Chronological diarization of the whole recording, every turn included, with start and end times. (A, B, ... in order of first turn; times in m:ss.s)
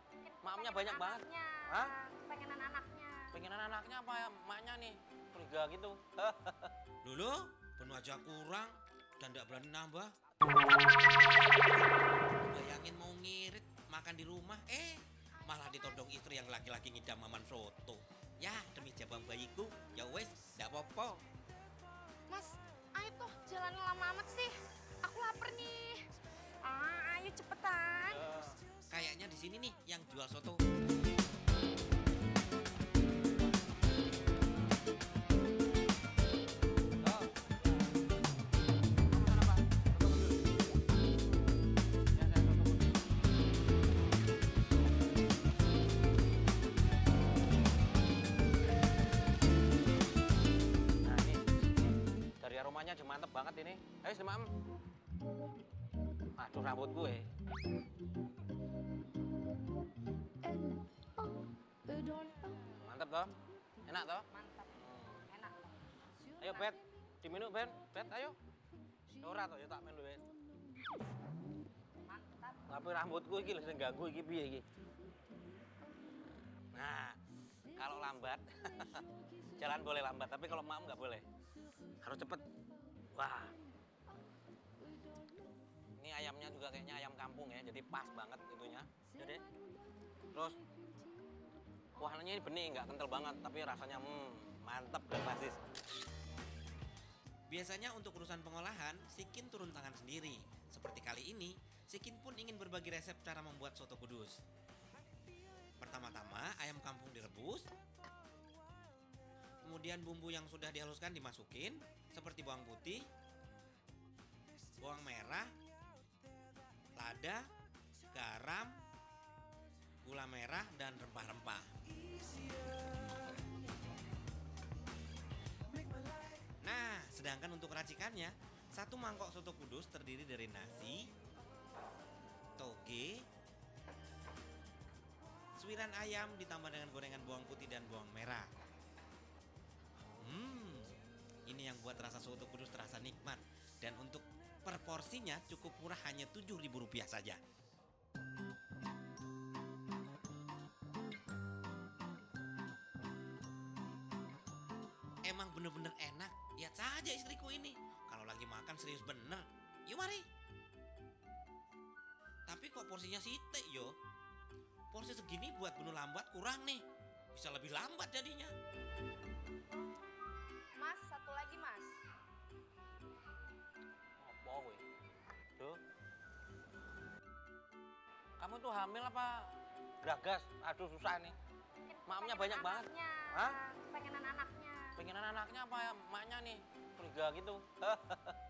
0:00.2-0:03.3 A
0:00.4-0:01.9 B
0:03.3-0:06.7 B
0:07.0-0:10.1 C
0:12.4-0:21.2 C
0:15.4-0:16.0 A
0:22.3-0:26.1 A
0:26.6-0:28.2 A
0:28.1-0:28.6 B
0:28.9-0:30.6 C
0:37.0-0:37.3 B
0:39.1-0:40.4 B
0:42.1-0:43.0 B
0:51.0-0:51.8 B
0:52.4-0:54.5 B
0:56.4-0:57.3 B
1:01.9-1:02.8 A
1:02.8-1:03.3 B
1:03.8-1:05.2 B
1:04.3-1:05.9 A
1:06.4-1:08.4 B
1:06.4-1:06.6 A
1:09.1-1:10.2 B
1:12.0-1:12.7 A
1:12.7-1:14.6 B
1:16.7-1:17.2 B
1:17.7-1:21.2 B
1:22.0-1:22.4 B
1:23.1-1:23.6 B
1:26.0-1:29.4 B
1:30.3-1:30.6 B
1:32.0-1:35.6 B
1:37.5-1:44.4 C
1:45.8-1:47.7 C
1:49.6-1:53.1 C
1:54.8-1:55.5 C
1:57.0-1:57.5 C
1:58.1-1:58.8 C
2:00.0-2:01.7 C
2:06.6-2:11.1 C
2:12.6-2:13.2 C
2:15.6-2:18.5 C
2:20.2-2:27.4 C
2:35.3-2:40.2 C
2:42.5-2:43.9 C
2:44.9-2:48.5 C
2:50.8-2:52.0 A
2:54.2-2:54.8 B
2:58.4-3:01.3 B
3:01.8-3:05.0 A
3:02.0-3:03.6 B
3:05.0-3:08.4 B